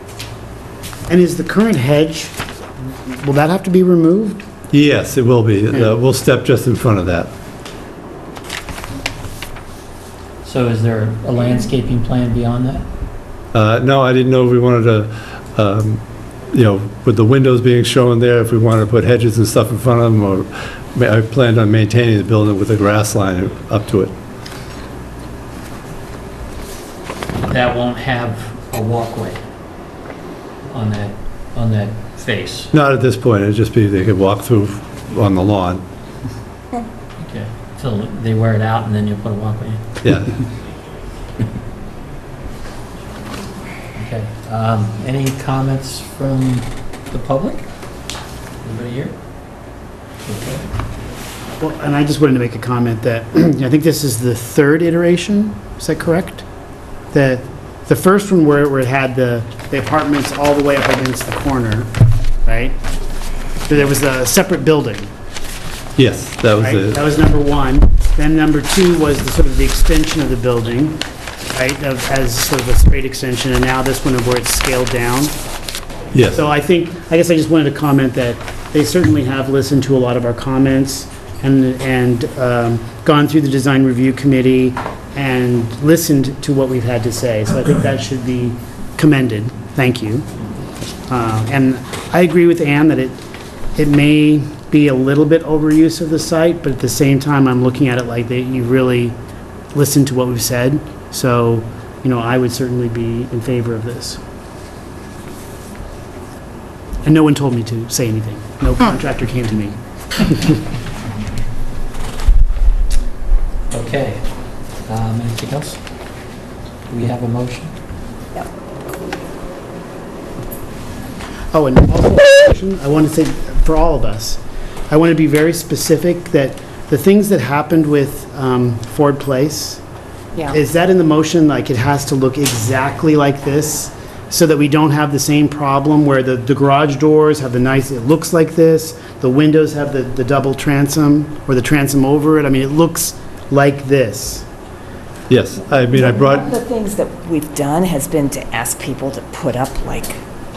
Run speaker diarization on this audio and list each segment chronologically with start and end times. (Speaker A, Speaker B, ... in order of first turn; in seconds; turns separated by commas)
Speaker A: 1.1-4.4, Speaker B: 4.7-7.3, Speaker C: 10.4-12.9, Speaker B: 13.5-24.1, Speaker C: 27.5-29.4, Speaker C: 30.7-32.7, Speaker B: 32.7-35.8, Speaker C: 37.2-39.8, Speaker B: 40.0-40.3, Speaker C: 44.0-47.7, Speaker C: 48.6-49.1, Speaker C: 50.2-50.7, Speaker A: 51.6-56.4, Speaker A: 57.1-61.9, Speaker A: 62.5-62.8, Speaker A: 63.7-65.1, Speaker B: 66.0-67.0, Speaker A: 66.6-71.0, Speaker A: 71.5-75.3, Speaker B: 76.1-76.4, Speaker A: 76.3-90.3, Speaker A: 91.1-93.2, Speaker A: 93.8-99.2, Speaker A: 99.7-104.2, Speaker A: 107.0-110.6, Speaker C: 113.7-114.3, Speaker C: 114.9-115.8, Speaker C: 116.9-117.7, Speaker A: 121.5-129.8, Speaker A: 130.5-144.4, Speaker B: 145.3-146.6, Speaker D: 145.8-150.2